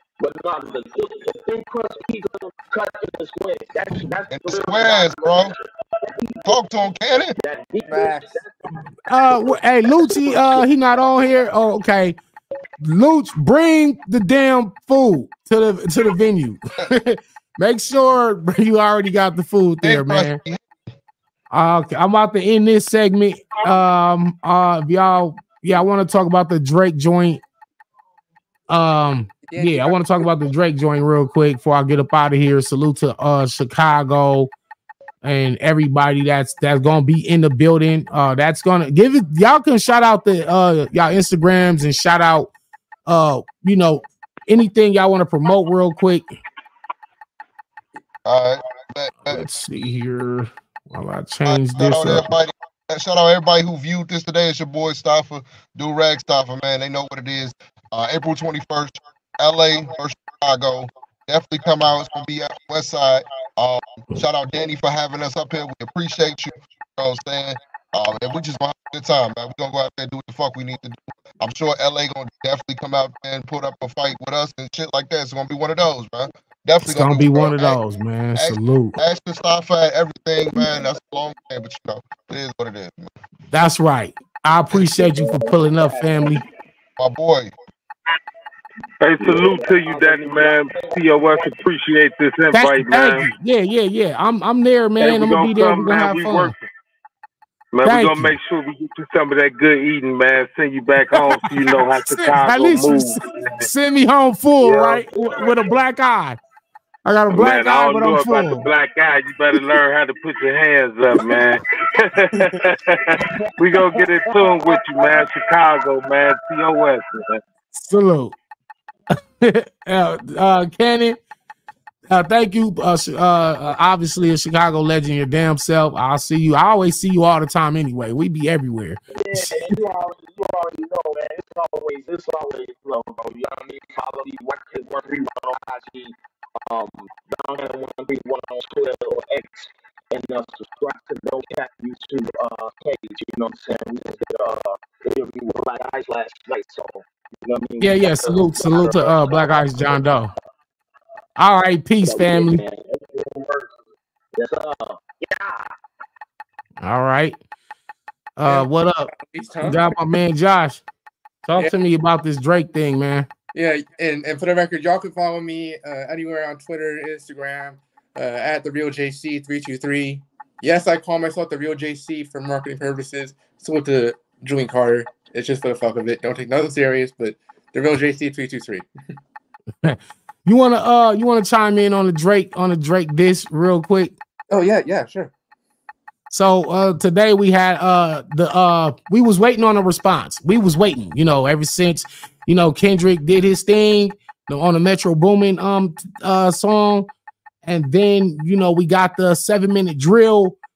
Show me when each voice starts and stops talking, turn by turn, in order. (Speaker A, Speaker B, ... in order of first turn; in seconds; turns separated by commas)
Speaker A: 0.2-6.6, Speaker B: 4.3-5.5, Speaker B: 6.5-7.3, Speaker A: 7.4-8.7, Speaker C: 7.9-8.4, Speaker D: 9.1-12.2, Speaker A: 9.9-10.6, Speaker D: 12.8-20.4, Speaker B: 19.8-20.6, Speaker D: 21.5-27.4, Speaker D: 28.7-34.5, Speaker C: 29.5-30.3, Speaker D: 35.2-42.5, Speaker D: 43.1-46.3, Speaker B: 48.2-49.4, Speaker D: 49.2-52.3, Speaker B: 51.5-77.8, Speaker D: 76.8-79.0, Speaker B: 78.3-83.1, Speaker D: 83.5-86.4, Speaker A: 84.9-86.4, Speaker B: 87.0-87.5, Speaker E: 89.0-93.3, Speaker A: 89.2-91.6, Speaker D: 92.5-96.5, Speaker E: 95.0-96.6, Speaker E: 97.7-103.7, Speaker D: 97.8-98.4, Speaker D: 101.1-106.4, Speaker E: 104.7-105.0, Speaker A: 104.9-105.5, Speaker D: 107.0-108.7, Speaker E: 107.3-117.4, Speaker A: 113.2-115.8, Speaker D: 117.7-118.3, Speaker D: 119.4-121.2, Speaker D: 122.1-129.7, Speaker A: 129.1-150.0, Speaker D: 147.8-150.3, Speaker D: 151.4-152.6, Speaker A: 152.0-153.7, Speaker A: 154.3-155.7, Speaker D: 156.8-157.4, Speaker D: 158.4-159.1, Speaker C: 158.4-159.8, Speaker D: 159.6-160.8, Speaker D: 161.4-163.3, Speaker C: 163.5-178.8, Speaker D: 179.8-184.2, Speaker C: 184.5-185.3, Speaker D: 186.3-197.1, Speaker D: 197.6-200.6